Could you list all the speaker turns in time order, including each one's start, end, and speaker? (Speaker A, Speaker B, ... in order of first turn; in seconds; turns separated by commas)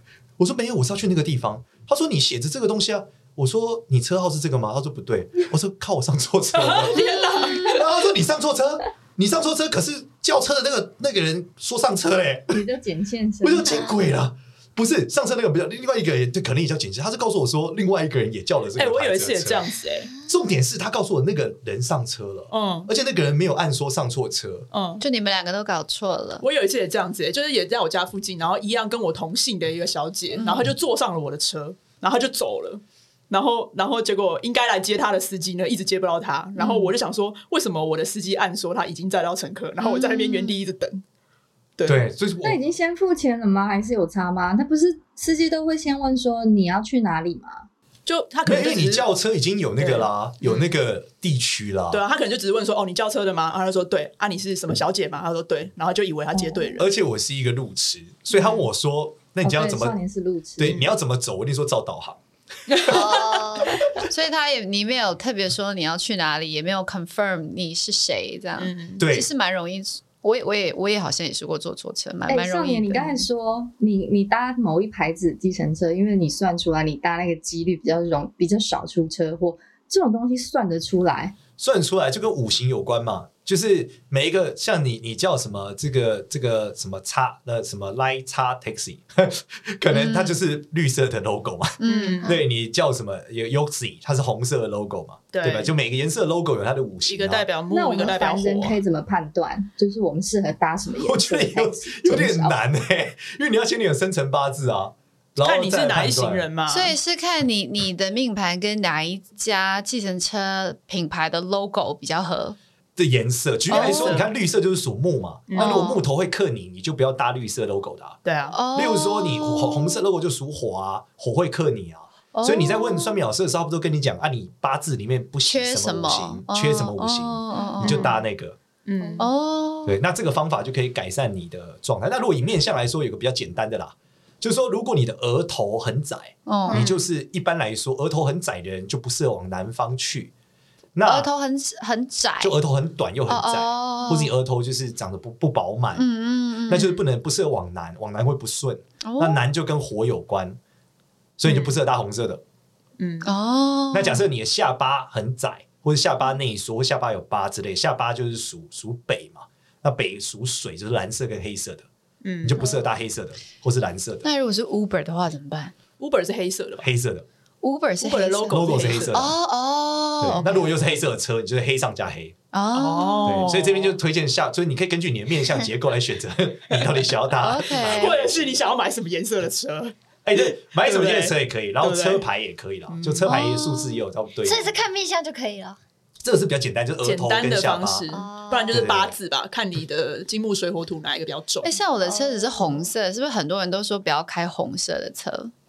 Speaker A: 0.4-12.7, Speaker B: 6.5-7.9, Speaker C: 12.5-13.9, Speaker A: 13.4-19.7, Speaker D: 13.7-13.9, Speaker B: 18.8-20.1, Speaker A: 20.2-24.7, Speaker B: 22.5-22.9, Speaker B: 24.7-25.0, Speaker E: 25.0-26.4, Speaker B: 26.4-41.0, Speaker E: 30.4-30.7, Speaker E: 36.6-36.9, Speaker E: 39.8-40.6, Speaker B: 41.8-42.0, Speaker A: 41.9-42.6, Speaker C: 42.4-47.7, Speaker B: 48.1-49.1, Speaker A: 48.5-52.0, Speaker B: 49.8-50.7, Speaker B: 51.9-56.9, Speaker A: 56.8-60.0, Speaker B: 58.3-58.7, Speaker C: 59.4-60.8, Speaker A: 60.6-62.2, Speaker B: 62.7-63.0, Speaker A: 62.8-63.0, Speaker D: 62.9-63.8, Speaker E: 64.0-73.3, Speaker B: 68.6-69.0, Speaker A: 69.0-69.3, Speaker C: 72.3-81.4, Speaker A: 81.6-97.5, Speaker E: 89.9-90.4, Speaker E: 91.8-92.2, Speaker B: 91.8-92.4, Speaker B: 95.3-95.7, Speaker B: 97.1-98.8, Speaker C: 97.7-102.6, Speaker A: 101.0-106.5, Speaker B: 105.4-107.0, Speaker E: 106.7-112.6, Speaker A: 113.0-118.2, Speaker E: 113.7-114.2, Speaker B: 113.7-114.3, Speaker B: 115.5-115.9, Speaker E: 115.6-116.0, Speaker B: 118.2-118.6, Speaker E: 118.5-120.0, Speaker A: 118.7-128.6, Speaker E: 122.3-123.2, Speaker E: 125.5-128.1, Speaker B: 127.8-128.2, Speaker B: 128.9-129.3, Speaker E: 129.2-130.0, Speaker A: 129.9-140.3, Speaker E: 136.5-136.8, Speaker D: 136.7-137.0, Speaker A: 140.9-141.3, Speaker E: 141.1-142.6, Speaker A: 142.4-146.1, Speaker E: 143.3-144.3, Speaker E: 145.9-147.0, Speaker A: 146.7-150.6, Speaker E: 149.0-149.4, Speaker A: 151.4-152.4, Speaker B: 153.0-153.3, Speaker E: 153.2-154.2, Speaker A: 153.9-161.9, Speaker B: 162.2-162.7, Speaker A: 162.4-164.3, Speaker E: 164.2-165.8, Speaker B: 166.0-166.9, Speaker A: 166.8-167.3, Speaker E: 167.6-170.5, Speaker B: 168.0-169.2, Speaker A: 168.5-169.4, Speaker A: 170.2-172.3, Speaker B: 170.4-170.7, Speaker E: 172.5-173.5, Speaker B: 172.7-174.0, Speaker A: 173.2-178.6, Speaker E: 177.4-178.1, Speaker B: 177.7-182.2, Speaker A: 180.2-184.8, Speaker B: 182.9-183.4, Speaker E: 183.3-184.0, Speaker D: 184.4-185.8, Speaker A: 186.2-188.1, Speaker B: 187.0-191.8, Speaker D: 188.1-188.9, Speaker A: 188.7-189.2, Speaker E: 191.6-195.5, Speaker D: 192.0-192.9